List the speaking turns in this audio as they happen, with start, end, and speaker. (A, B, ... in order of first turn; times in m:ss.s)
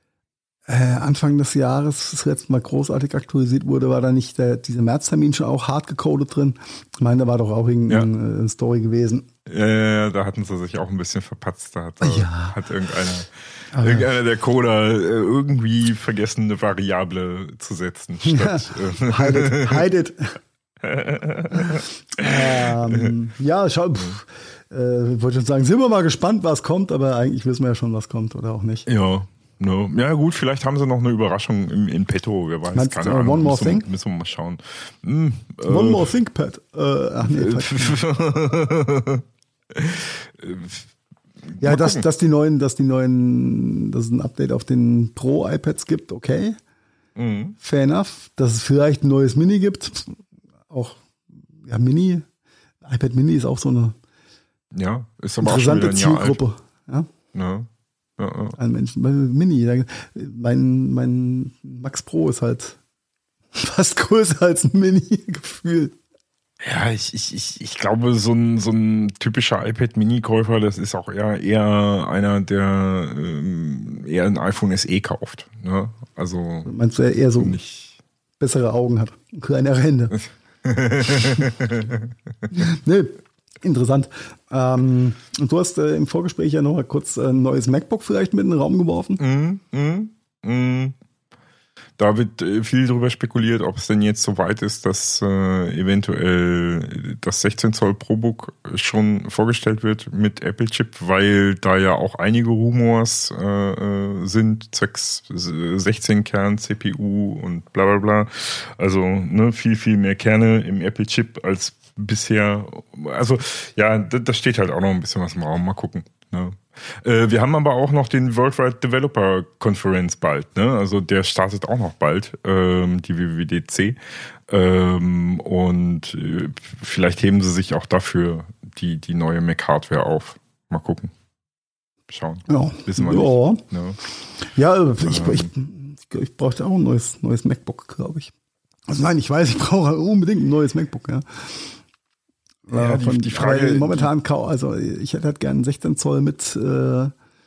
0:00.7-0:09.3 A
0:09.5-0:19.8 B
0:12.0-0:12.6 A
0:13.7-0:14.1 A
0:18.2-0:20.4 A
0:20.8-0:23.1 B
0:21.6-0:28.9 A
0:28.9-0:36.1 B
0:32.7-0:33.9 A
0:35.7-0:38.0 A
0:37.2-0:39.2 B
0:39.8-0:40.9 B
0:41.5-0:42.0 B
0:41.6-0:46.6 A
0:47.2-0:47.6 B
0:47.6-0:51.0 A
0:51.6-0:52.3 A
0:52.8-0:54.0 A
0:54.7-0:56.4 B
0:55.4-0:57.1 A
0:57.3-0:58.6 B
0:58.6-1:02.8 A
1:03.5-1:06.0 A
1:06.6-1:16.7 B
1:16.7-1:17.6 A
1:17.4-1:18.0 B
1:18.4-1:20.2 A
1:20.2-1:22.1 B
1:22.5-1:29.2 A
1:29.2-1:31.0 B
1:32.0-2:11.1 B
2:12.1-2:14.0 B
2:12.5-2:13.6 A
2:14.4-2:18.3 A
2:15.0-2:15.5 B
2:18.9-2:21.8 A
2:22.7-2:27.1 A
2:22.7-2:24.1 B